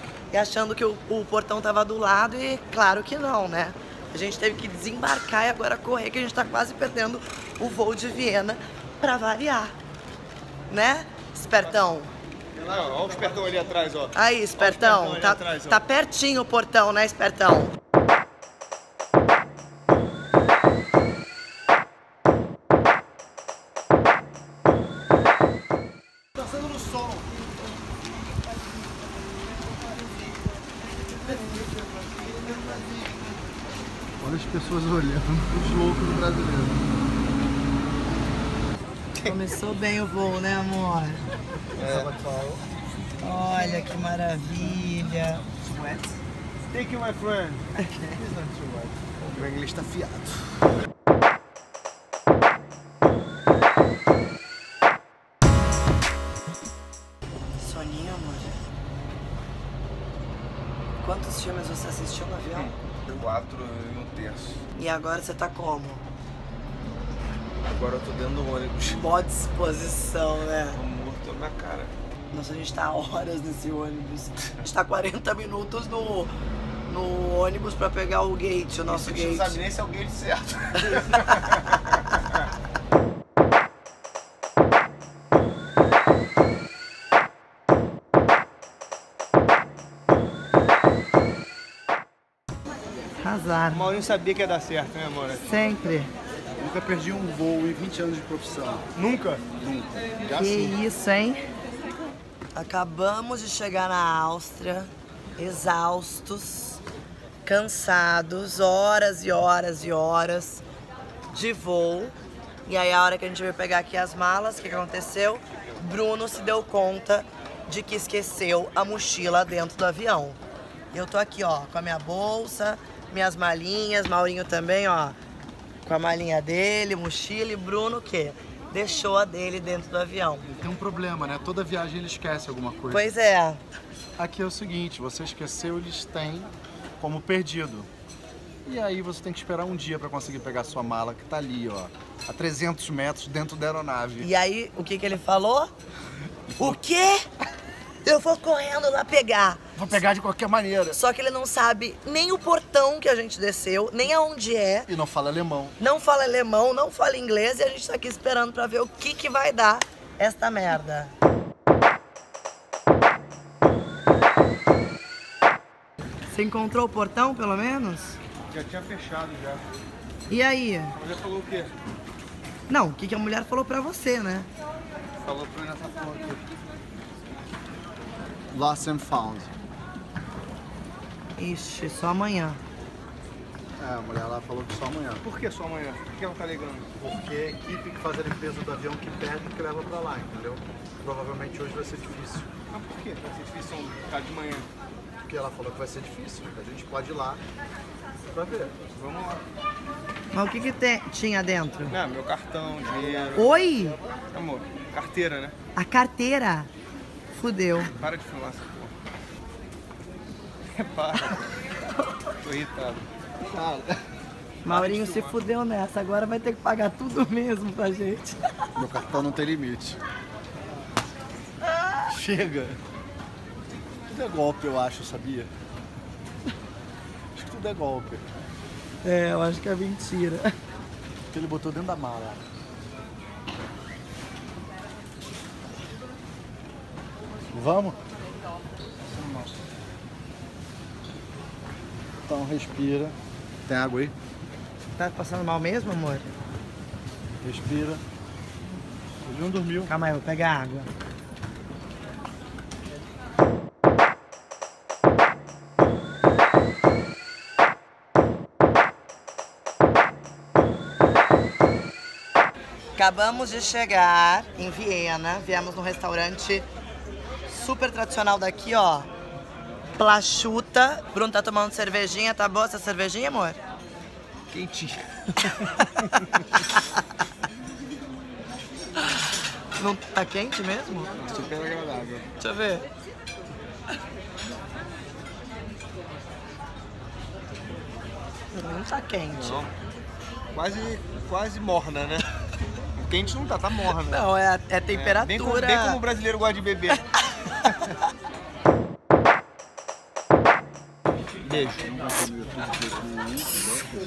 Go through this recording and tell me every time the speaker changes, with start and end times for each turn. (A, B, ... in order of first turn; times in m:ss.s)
0:00.3-0:09.7 A
0:10.7-0:12.1 A
0:12.6-0:15.8 B
0:14.1-0:17.7 A
0:34.2-0:36.9 C
0:39.2-0:41.2 A
0:41.8-0:42.1 B
0:41.8-0:42.6 C
0:43.2-0:46.2 A
0:46.7-0:49.8 B
0:49.3-0:50.5 C
0:57.5-0:58.6 A
1:01.0-1:02.7 A
1:02.5-1:04.6 B
1:04.7-1:06.0 A
1:07.7-1:09.0 B
1:08.8-1:10.8 A
1:10.7-1:11.9 B
1:12.3-1:16.3 A
1:16.9-1:19.6 A
1:18.8-1:21.8 B
1:21.2-1:22.0 A
1:33.2-1:33.9 A
1:33.7-1:35.5 B
1:35.4-1:36.1 A
1:36.6-1:38.9 C
1:38.9-1:39.4 B
1:39.5-1:40.8 C
1:40.3-1:41.4 A
1:42.5-1:46.8 A
1:47.4-1:50.6 A
1:51.3-2:00.4 A
2:00.9-2:05.2 A
2:05.8-2:10.5 A
2:10.5-2:13.1 C
2:12.9-2:13.6 A
2:14.2-2:17.9 C
2:18.6-2:24.3 C
2:24.2-2:25.7 A
2:26.6-2:27.3 A
2:28.0-2:29.6 A
2:29.8-2:31.0 C
2:30.9-2:34.9 A
2:34.9-2:35.8 C
2:35.8-2:41.1 A
2:46.3-2:48.2 A
2:48.5-2:49.6 B
2:50.3-2:51.0 A
2:51.0-2:51.7 B
2:52.7-2:54.5 A
2:55.2-2:56.4 B
2:58.5-2:59.5 C
3:01.4-3:02.6 A
3:03.8-3:05.2 C
3:05.2-3:06.9 B
3:07.0-3:12.5 C
3:12.7-3:14.7 B
3:15.2-3:17.4 C
3:18.3-3:18.7 C
3:18.9-3:19.4 B
3:20.3-3:22.0 A
3:21.9-3:23.6 B
3:23.3-3:24.0 A
3:24.1-3:25.5 B
3:25.8-3:26.7 A
3:27.3-3:27.9 A
3:27.9-3:28.9 B
3:30.7-3:31.6 B
3:32.4-3:33.1 B
3:33.4-3:34.0 C
3:34.6-3:38.6 A
3:34.6-3:35.4 B
3:38.7-3:40.0 C
3:41.7-3:42.0 A
3:42.1-3:42.8 C
3:44.1-3:45.5 C
3:47.3-3:48.2 C
3:49.0-3:50.5 A
3:51.3-3:52.4 C
3:57.5-3:58.0 C
3:59.2-3:59.5 B
4:02.3-4:04.1 C
4:05.0-4:06.3 A
4:07.4-4:08.0 C
4:09.2-4:09.9 C
4:09.8-4:10.9 A
4:23.0-4:26.7 A
4:27.4-4:29.1 A
4:30.0-4:33.6 A
4:34.5-4:36.4 B
4:35.4-4:36.0 A
4:36.6-4:37.0 A
4:39.8-4:41.1 A
4:41.2-4:42.2 B
4:42.4-4:42.9 A
4:48.5-4:49.6 A
4:49.3-4:49.7 B
4:50.5-4:52.2 B
4:53.0-4:54.2 B
4:53.9-4:56.0 A
4:54.9-4:57.0 B
4:56.9-4:57.9 A
4:57.6-4:57.9 B
5:01.4-5:01.8 B
5:01.8-5:03.8 C